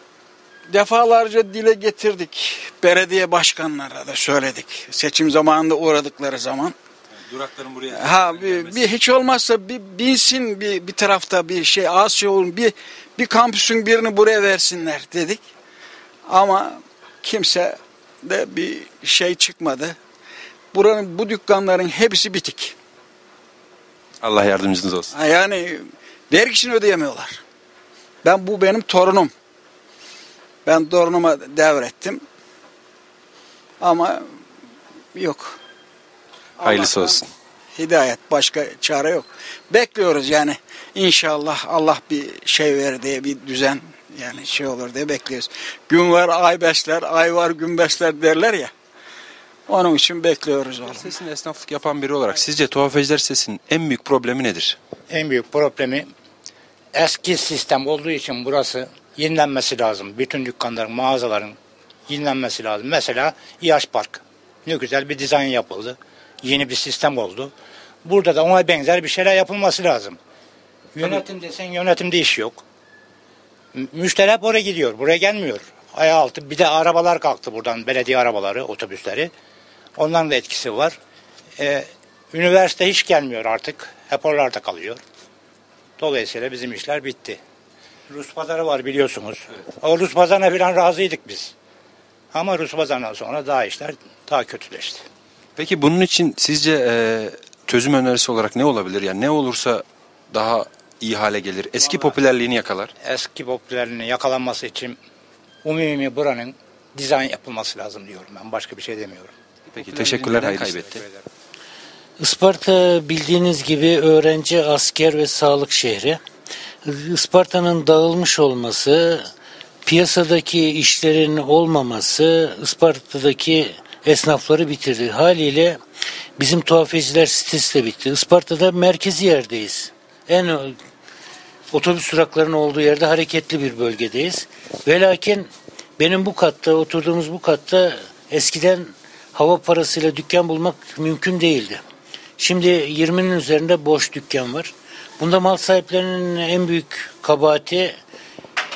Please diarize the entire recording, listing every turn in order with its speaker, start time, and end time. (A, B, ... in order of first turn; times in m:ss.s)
0:00.7-0:06.8 A
0:07.3-0:09.0 B
0:07.9-0:15.4 A
0:16.3-0:20.0 A
0:20.7-0:22.8 A
0:24.2-0:25.1 B
0:25.1-0:27.4 A
0:28.2-0:29.3 A
0:30.7-0:32.2 A
0:33.8-0:34.2 A
0:35.2-0:35.6 A
0:36.6-0:37.2 A
0:36.6-0:37.3 B
0:37.8-0:48.7 A
0:49.7-0:51.1 A
0:50.8-0:54.8 B
0:55.1-0:56.1 C
0:57.0-1:07.5 C
1:08.0-1:10.2 C
1:11.0-1:12.6 C
1:13.8-1:19.3 C
1:20.0-1:21.0 C
1:21.6-1:25.0 C
1:26.0-1:27.4 C
1:28.1-1:31.5 C
1:32.3-1:35.0 C
1:35.6-1:42.9 B
1:43.0-1:45.0 C
1:45.6-1:49.3 C
1:49.7-1:51.0 B
1:50.0-1:51.2 C
1:52.2-1:56.2 D
1:56.8-1:59.3 D
1:59.9-2:05.8 D
2:06.4-2:10.8 D
2:11.7-2:21.8 D
2:22.4-2:27.9 D